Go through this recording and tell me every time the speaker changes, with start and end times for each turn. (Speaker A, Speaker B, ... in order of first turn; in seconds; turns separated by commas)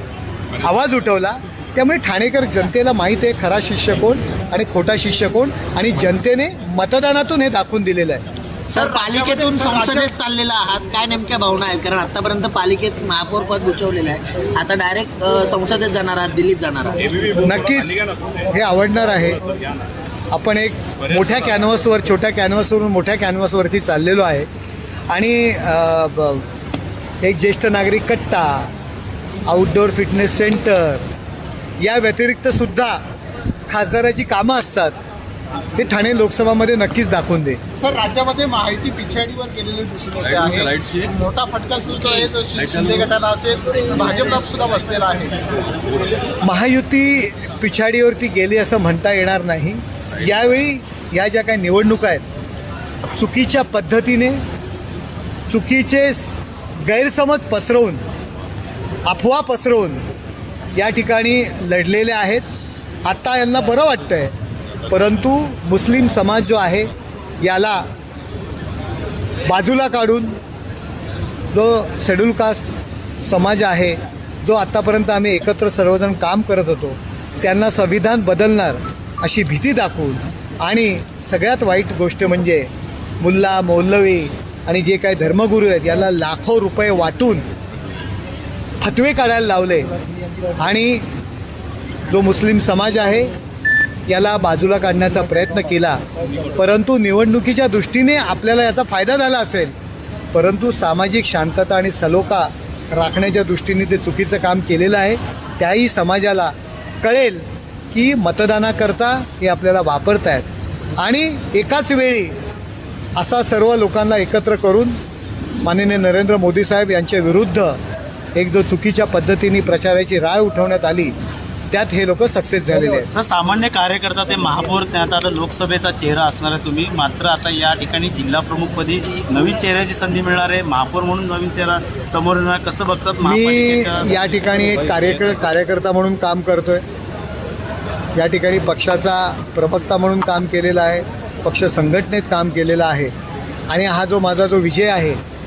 Speaker A: 0.6-8.2, Speaker B: 8.7-17.2, Speaker C: 8.8-10.0, Speaker A: 17.3-19.6, Speaker A: 20.3-24.5, Speaker A: 25.1-26.5, Speaker A: 27.2-28.7, Speaker A: 29.5-31.1, Speaker A: 31.8-33.0, Speaker A: 33.7-35.0, Speaker A: 35.8-37.6, Speaker C: 37.8-45.8, Speaker A: 46.4-52.2, Speaker A: 53.1-54.4, Speaker A: 55.5-58.0, Speaker A: 59.0-60.0, Speaker A: 60.8-62.4, Speaker A: 63.0-64.3, Speaker A: 64.9-66.9, Speaker A: 67.4-67.9, Speaker A: 69.5-70.4, Speaker A: 71.5-72.7, Speaker A: 73.2-82.7, Speaker A: 83.2-87.4, Speaker A: 88.8-89.9, Speaker A: 90.6-91.0, Speaker A: 92.1-93.3, Speaker A: 94.1-96.0, Speaker A: 96.5-99.7, Speaker A: 100.3-110.5, Speaker A: 111.0-112.3, Speaker A: 113.2-115.0, Speaker A: 115.6-117.8, Speaker A: 118.3-121.1, Speaker A: 121.7-123.1, Speaker D: 123.0-135.4, Speaker A: 133.2-136.8, Speaker A: 138.2-143.1, Speaker A: 143.7-145.2